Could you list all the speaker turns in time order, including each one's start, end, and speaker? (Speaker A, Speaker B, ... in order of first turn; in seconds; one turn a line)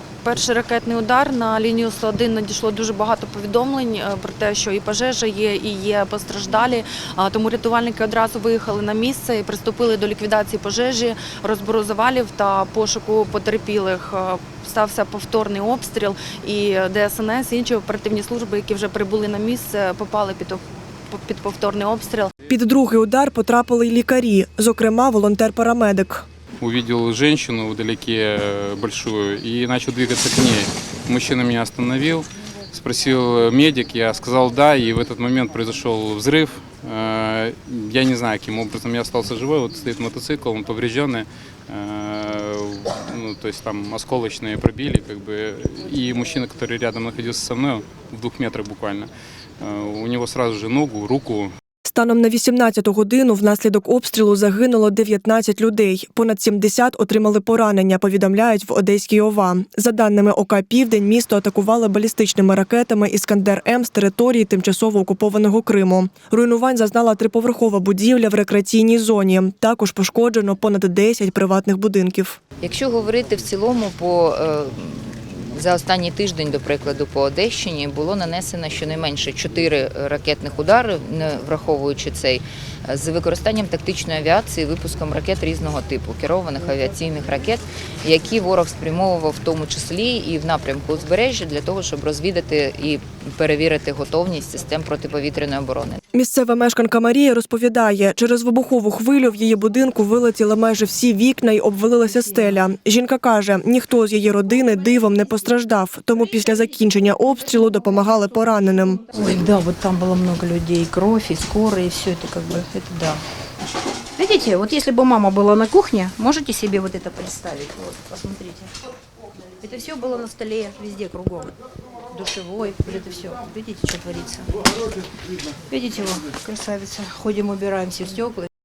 Speaker A: 0.2-22.3
Speaker B: 22.5-26.2
Speaker C: 26.6-51.5
Speaker B: 51.8-72.4
Speaker D: 72.6-96.0
Speaker B: 96.1-109.0
Speaker E: 109.1-113.2
Speaker E: 114.2-118.7
Speaker E: 119.6-121.5
Speaker E: 122.1-124.5
Speaker E: 125.7-128.5